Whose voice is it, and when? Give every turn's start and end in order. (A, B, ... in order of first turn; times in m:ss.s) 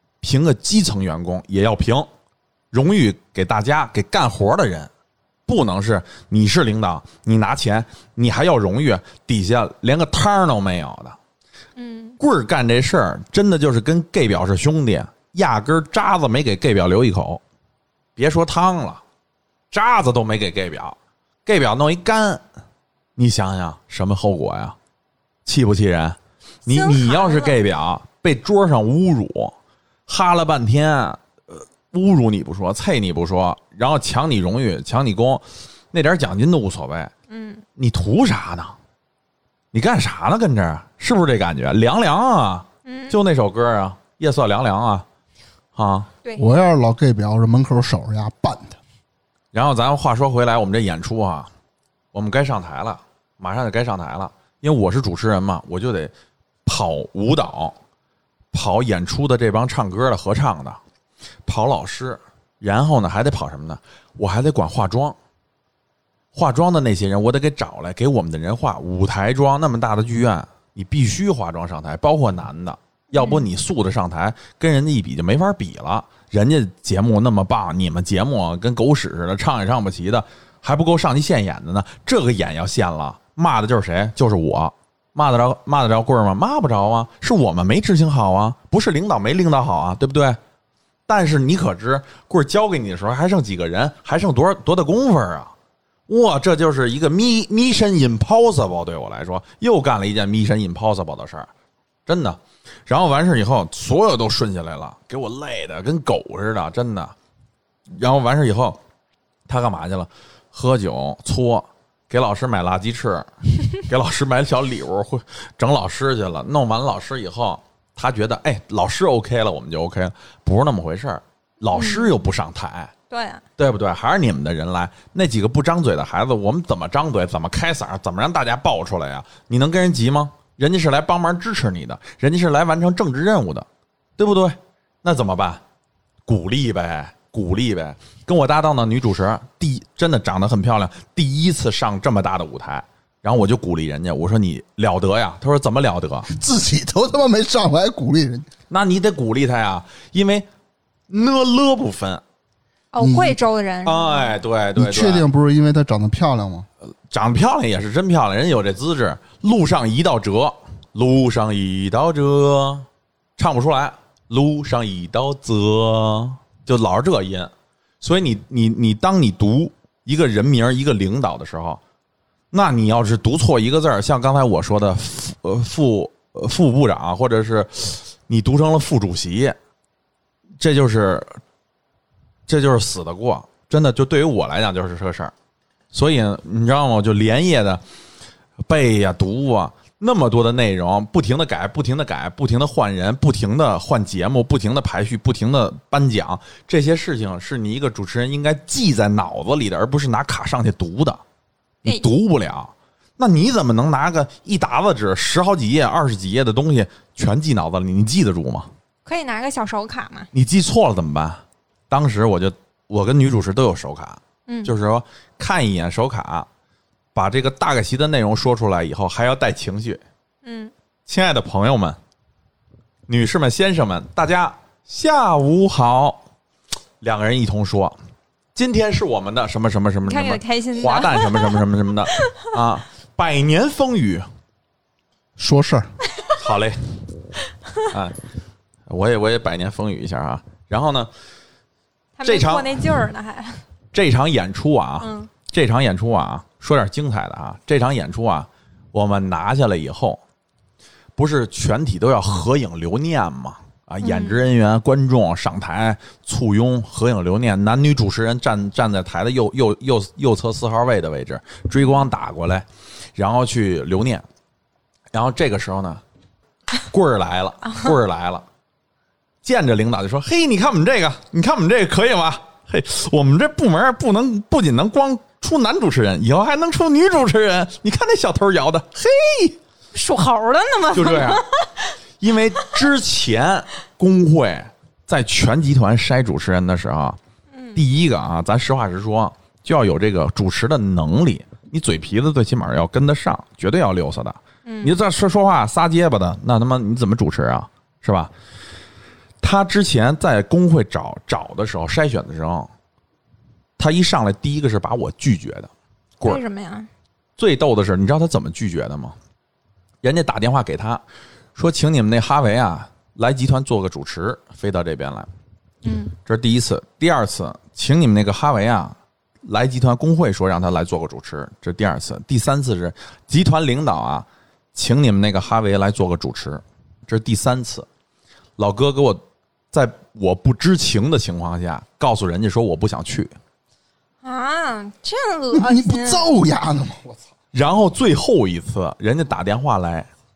0:00.2-0:02.1 A
0:02.7-0:04.9 A
0:05.5-0:11.2 A
0:11.8-0:12.2 B
0:12.2-0:17.4 A
0:18.2-0:19.0 A
0:19.7-0:22.4 A
0:23.2-0:24.8 A
0:25.4-0:29.5 A
0:26.6-0:27.5 B
0:30.1-0:37.1 A
0:37.3-0:37.6 B
0:37.8-0:38.8 A
0:39.7-0:45.0 A
0:42.8-0:43.2 B
0:45.8-0:46.1 A
0:46.4-0:48.8 C
0:49.5-0:51.5 A
0:52.1-0:56.1 A
0:56.6-0:57.8 A
0:58.5-1:00.8 A
1:01.4-1:05.2 A
1:06.3-1:30.4 A
1:13.1-1:13.5 B
1:31.1-1:35.5 A
1:36.1-1:41.5 A
1:42.0-1:47.1 A
1:48.0-1:48.8 A
1:49.5-2:02.9 A
2:01.7-2:02.2 B
2:03.1-2:03.4 B
2:03.6-2:13.6 A
2:14.2-2:15.6 A
2:16.3-2:26.3 A
2:26.3-2:28.5 C
2:28.7-2:30.4 A
2:31.1-2:32.2 A
2:32.9-2:34.3 B
2:33.0-2:33.4 C
2:33.8-2:35.2 A
2:34.8-2:36.7 C
2:37.1-2:42.8 A
2:43.4-2:51.8 A
2:52.5-2:59.6 A
3:00.6-3:01.4 A
3:02.5-3:05.3 A
3:05.9-3:07.8 A
3:08.6-3:21.2 A
3:21.8-3:28.7 A
3:29.0-3:30.3 B
3:30.3-3:36.5 A
3:37.1-3:40.0 A
3:40.4-3:40.7 B
3:41.1-3:42.0 A
3:43.1-3:46.2 A
3:47.0-3:48.0 A
3:48.5-3:54.3 A
3:50.0-3:51.6 B
3:55.4-3:55.9 C
3:56.4-3:56.9 A
3:57.8-3:58.2 A
3:58.9-4:01.1 A
4:02.2-4:03.6 B
4:02.2-4:02.8 A
4:03.9-4:10.2 A
4:05.0-4:05.3 B
4:11.2-4:24.2 A
4:14.0-4:14.4 B
4:25.1-4:26.0 A
4:26.9-4:28.4 A
4:29.4-4:39.6 A
4:39.9-4:41.9 B
4:40.9-4:41.4 A
4:42.2-4:47.2 A
4:47.5-4:47.8 B
4:47.7-4:58.3 A
4:54.6-4:54.9 B
4:59.4-5:02.7 A
5:03.8-5:06.4 A
5:06.2-5:06.9 B
5:07.4-5:09.2 A
5:10.0-5:11.0 A
5:11.5-5:15.3 A
5:15.8-5:16.1 B
5:16.2-5:27.9 A
5:28.6-5:33.3 A
5:34.2-5:36.3 B
5:35.5-5:37.2 C
5:37.5-5:40.1 A